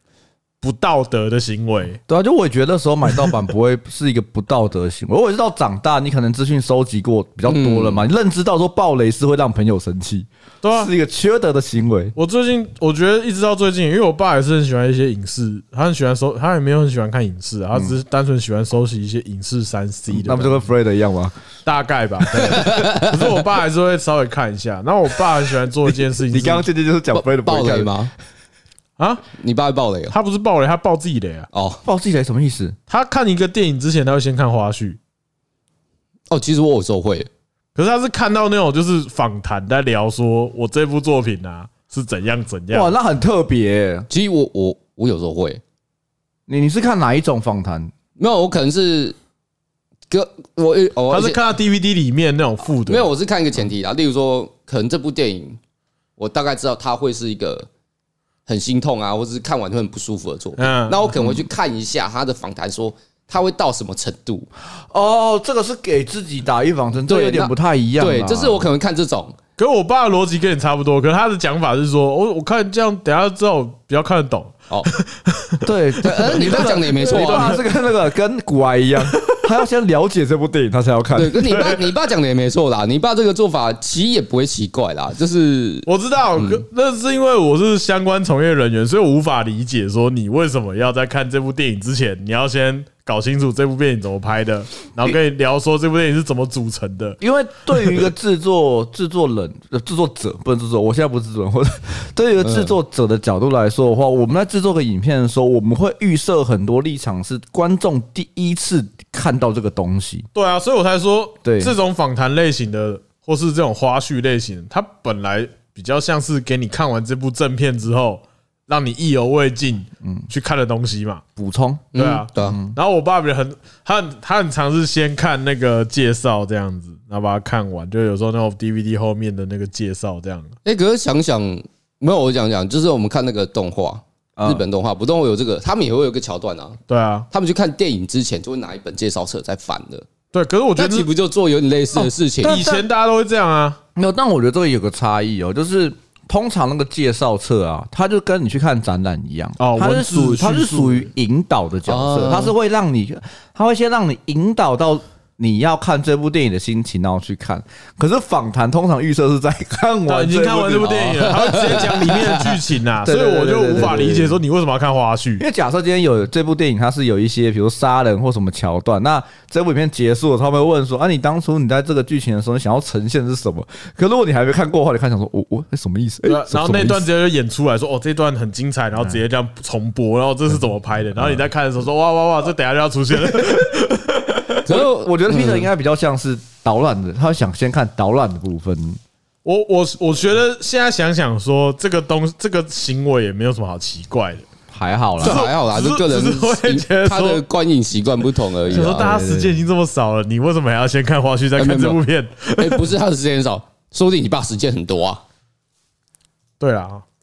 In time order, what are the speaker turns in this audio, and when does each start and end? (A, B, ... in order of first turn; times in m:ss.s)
0:00.6-0:02.0 A
0:02.1-0:12.1 B
0:07.5-0:08.0 C
0:10.6-0:10.9 A
0:12.2-0:20.7 A
0:20.1-0:21.3 B
0:21.6-0:26.7 A
0:22.4-0:23.1 C
0:26.3-0:27.9 B
0:27.1-0:28.1 C
0:29.0-0:29.2 A
0:29.3-0:30.1 C
0:30.1-0:31.5 A
0:31.5-0:31.8 C
0:31.8-0:32.8 B
0:32.9-0:35.0 A
0:36.3-0:37.3 C
0:37.7-0:42.9 A
0:42.7-0:44.1 B
0:44.1-0:45.6 C
0:46.5-0:47.9 B
0:48.2-0:49.1 C
0:50.1-0:51.4 C
0:51.1-0:53.1 A
0:52.8-0:55.6 C
0:56.2-0:57.7 C
0:58.5-1:04.5 C
1:00.6-1:01.1 A
1:04.7-1:08.7 B
1:07.1-1:09.4 C
1:09.6-1:17.6 A
1:15.6-1:21.5 B
1:16.0-1:17.6 C
1:19.1-1:19.4 A
1:21.1-1:26.6 C
1:21.4-1:21.8 A
1:25.8-1:37.2 A
1:37.2-1:50.3 B
1:42.4-1:42.7 C
1:50.3-2:01.2 A
1:51.4-1:51.7 B
2:01.4-2:01.9 B
2:01.9-2:02.6 C
2:01.9-2:10.5 A
2:02.4-2:02.8 B
2:10.6-2:16.8 C
2:14.4-2:14.6 B
2:16.9-2:17.3 A
2:17.3-2:20.1 C
2:20.3-2:21.1 A
2:20.8-2:22.6 C
2:22.0-2:22.8 B
2:22.4-2:23.8 A
2:23.9-2:41.8 B
2:29.6-2:31.1 A
2:31.9-2:32.5 C
2:40.1-2:45.4 A
2:41.3-2:42.5 C
2:43.0-2:44.4 B
2:45.4-2:57.0 B
2:56.2-3:04.6 A
3:01.2-3:01.4 B
3:04.5-3:09.0 B
3:04.6-3:05.7 C
3:09.4-3:14.4 A
3:14.7-3:15.4 B
3:15.2-3:17.4 A
3:15.2-3:19.0 C
3:18.7-3:22.9 A
3:18.7-3:19.6 B
3:21.6-3:22.0 C
3:22.6-3:25.2 C
3:26.6-3:27.0 A